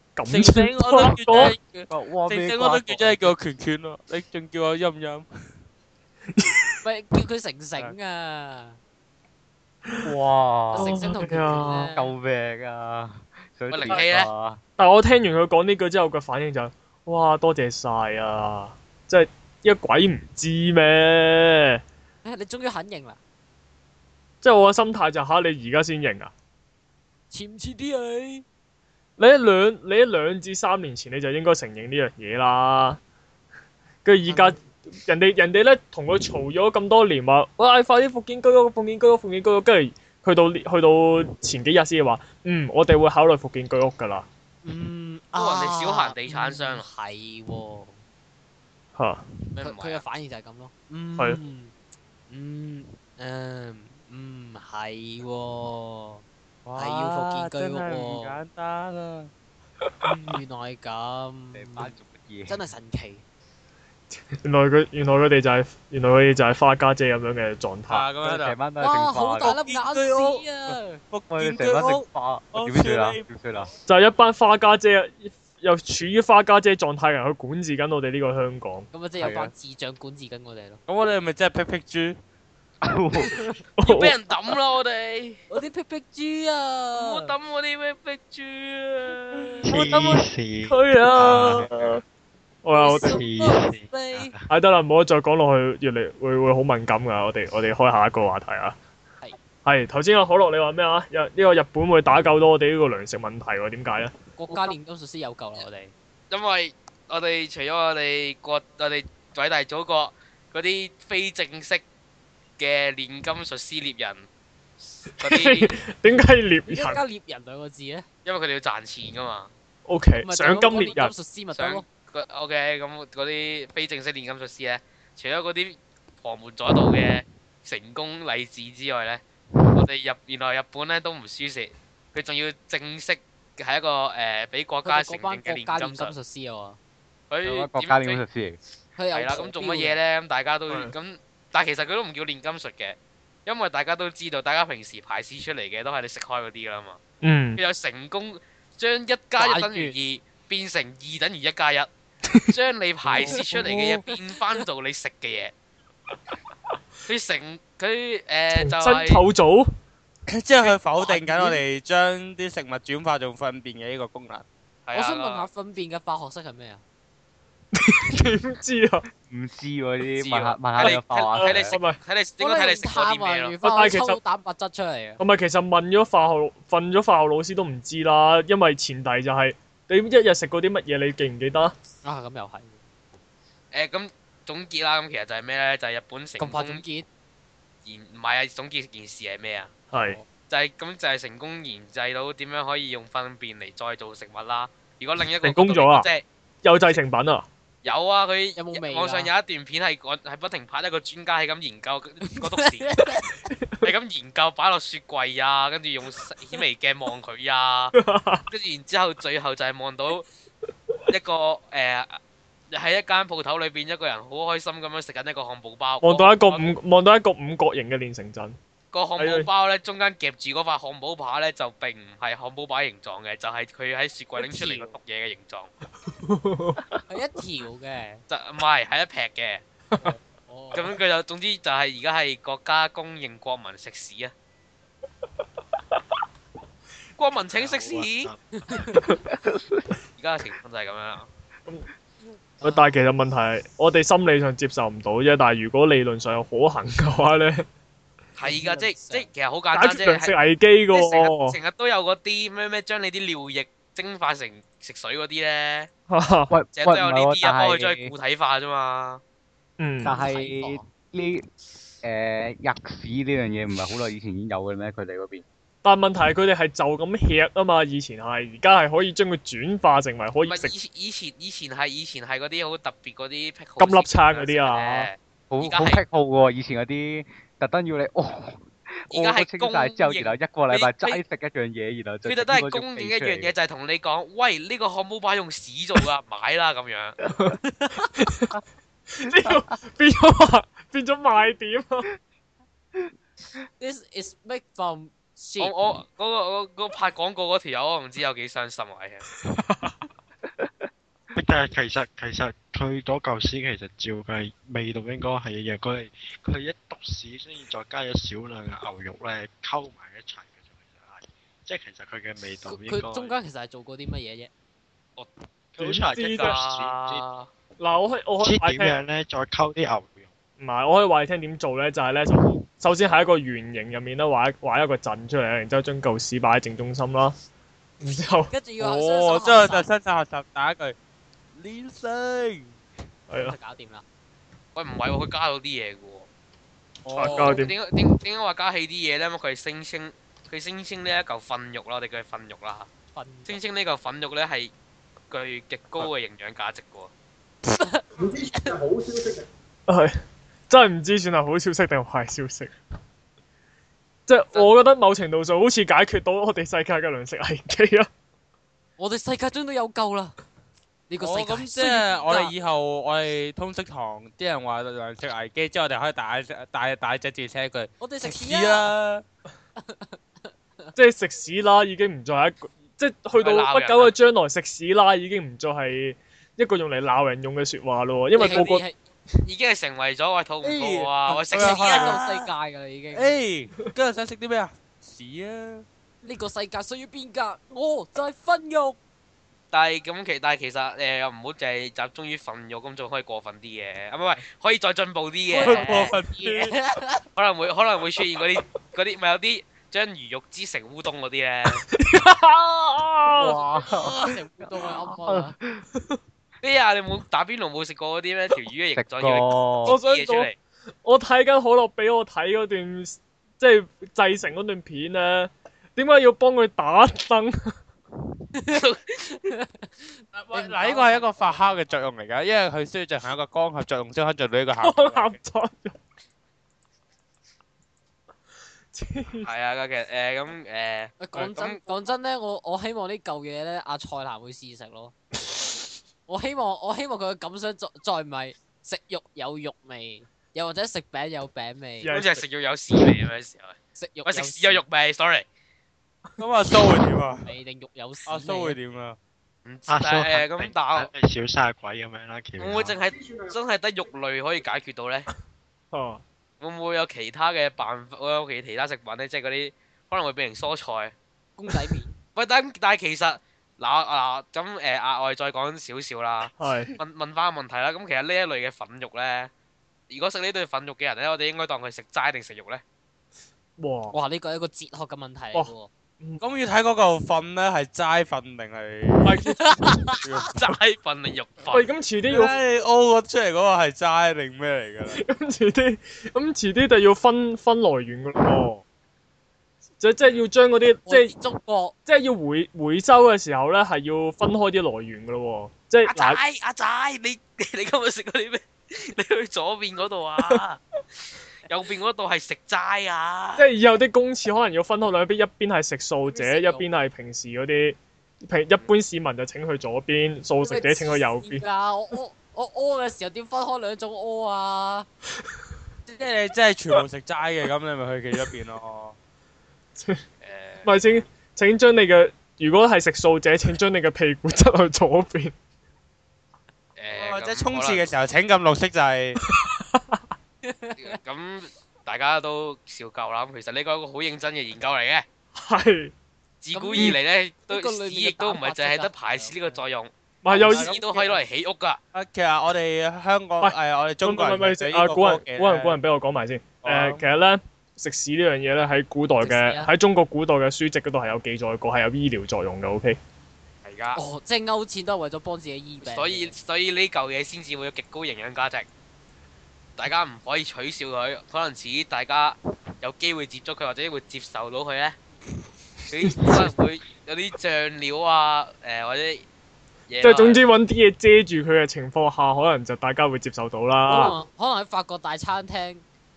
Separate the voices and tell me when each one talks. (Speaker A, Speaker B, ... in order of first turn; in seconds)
Speaker A: 0.1-1.5, 6.4-6.6, 10.8-11.9, 14.8-21.8, 24.4-26.3, 29.2-33.0, 34.0-44.2, 49.0-49.2, 64.3-68.1, 73.8-78.9, 83.8-84.1, 89.7-92.0, 92.6-93.2, 94.5-98.8, 99.6-104.1, 115.2-117.0, 119.9-121.1, 147.2-147.6, 153.1-153.7, 158.5-159.7, 160.6-161.6, 167.7-169.1, 170.8-172.0, 173.6-174.2, 175.2-181.7, 189.9-190.2, 195.4-196.1, 196.6-197.5, 203.6-203.8, 208.0-208.4, 216.0-218.6, 219.2-219.5, 226.1-226.8, 242.6-247.7, 249.7-251.6, 256.1-256.5, 259.8-260.1, 265.8-270.7, 273.8-275.1, 288.2-288.5, 289.1-292.1, 299.4-300.0, 315.8-316.6, 317.8-319.0, 320.6-327.4, 328.0-328.5, 333.3-333.6, 337.1-337.7, 349.9-350.1, 350.7-352.7, 354.3-358.1, 370.9-378.8, 395.6-396.1, 401.9-403.6, 409.9-410.5, 411.0-417.7, 424.8-426.0, 428.9-429.5, 442.0-442.4, 455.9-456.2, 466.6-466.9, 473.8-474.1, 475.5-476.4, 479.2-479.6, 481.7-482.6, 485.1-488.8, 490.0-491.3, 492.1-496.4, 503.6-511.6, 520.0-520.2, 520.8-525.5, 529.5-530.2, 535.5-536.1, 540.4-540.9, 543.6-553.2, 566.2-566.7, 570.2-574.4
Speaker B: 0.3-5.2, 56.6-59.3, 67.9-68.5, 69.4-73.2, 80.9-82.2, 160.3-164.4, 328.8-330.9, 331.5-332.8, 337.0-337.6, 361.2-369.2, 380.6-382.5, 383.1-385.8, 395.7-396.7, 420.4-425.3, 446.4-447.5, 448.3-449.2, 476.4-480.6, 482.3-485.2, 516.1-519.1, 527.1-529.4, 542.1-546.0, 546.8-547.2
Speaker C: 1.9-3.3, 10.0-11.1, 11.9-14.6, 61.5-62.6, 68.2-69.6, 71.3-73.7, 82.8-83.6, 137.4-138.6, 169.3-171.7, 256.5-258.1, 260.0-261.4, 262.0-265.4, 275.5-283.5, 289.2-289.7, 403.3-405.8, 408.9-410.0
Speaker D: 6.8-8.8, 10.7-12.1, 22.2-23.2, 27.3-28.4, 34.3-34.5, 44.6-48.0, 49.6-51.7, 52.3-56.2, 56.8-58.4, 60.0-61.9, 62.5-63.2, 68.8-70.9, 78.9-80.8, 85.5-87.3, 92.7-94.3, 104.3-105.9, 116.7-118.0, 120.2-121.8, 134.8-136.8, 139.0-140.0, 149.4-149.9, 153.2-153.8, 164.9-166.8, 172.4-175.2, 182.0-182.8, 186.4-187.1, 190.0-190.2, 198.6-199.3, 202.2-203.4, 224.4-224.9, 227.1-228.2, 230.0-230.9, 238.5-239.0, 242.6-242.9, 248.4-249.3, 260.1-260.9, 293.8-295.7, 312.6-314.5, 328.5-329.9, 333.3-334.0, 343.1-343.6, 347.8-349.1, 359.0-360.4, 361.1-362.5, 368.0-368.9, 369.8-370.9, 378.3-379.0, 381.3-383.4, 386.2-389.0, 395.5-397.2, 403.9-405.5, 418.5-422.0, 431.2-435.1, 436.3-442.1, 443.9-444.8, 447.4-448.8, 461.6-462.1, 474.1-475.9, 479.6-480.2, 491.1-491.9, 506.3-506.9, 510.6-515.1, 530.6-531.2, 536.7-537.2, 537.7-539.8, 540.5-541.4, 549.4-549.9, 554.1-556.5, 574.1-576.0
Speaker E: 13.7-14.3, 45.4-46.8, 49.5-50.0, 83.8-85.4, 86.9-89.6, 106.3-111.8, 112.6-114.3, 114.9-115.7, 118.2-119.5, 121.5-129.2, 129.7-136.1, 137.3-138.2, 139.1-147.0, 147.6-151.9, 152.4-155.5, 157.1-159.2, 164.8-165.5, 170.2-173.5, 183.7-186.8, 187.8-189.7, 190.5-196.2, 197.8-203.0, 203.8-207.9, 208.5-210.2, 211.1-212.2, 212.7-216.6, 218.9-225.7, 228.3-229.6, 230.7-234.3, 237.2-238.3, 240.2-241.3, 248.4-250.3, 250.9-255.9, 256.7-259.2, 270.4-276.0, 279.1-281.2, 282.2-287.2, 295.6-299.2, 316.2-317.5, 334.7-336.3, 337.3-342.9, 343.4-344.7, 345.3-347.1, 373.3-374.1, 379.4-382.2, 389.7-396.1, 397.3-401.8, 406.6-410.6, 418.7-419.3, 429.4-431.8, 442.1-445.4, 449.6-451.1, 452.6-455.3, 456.6-461.1, 462.3-469.5, 470.1-472.8, 480.5-481.9, 496.1-500.8, 501.7-503.6, 520.4-521.0, 527.0-528.1, 531.0-535.2, 536.6-540.1, 540.7-542.0, 553.8-554.2, 556.0-558.9, 560.0-565.1, 566.1-569.5, 570.1-570.6
Speaker F: 89.7-92.0, 93.1-94.5, 237.5-238.5, 301.3-313.3, 315.7-317.2, 318.4-320.3, 449.9-452.9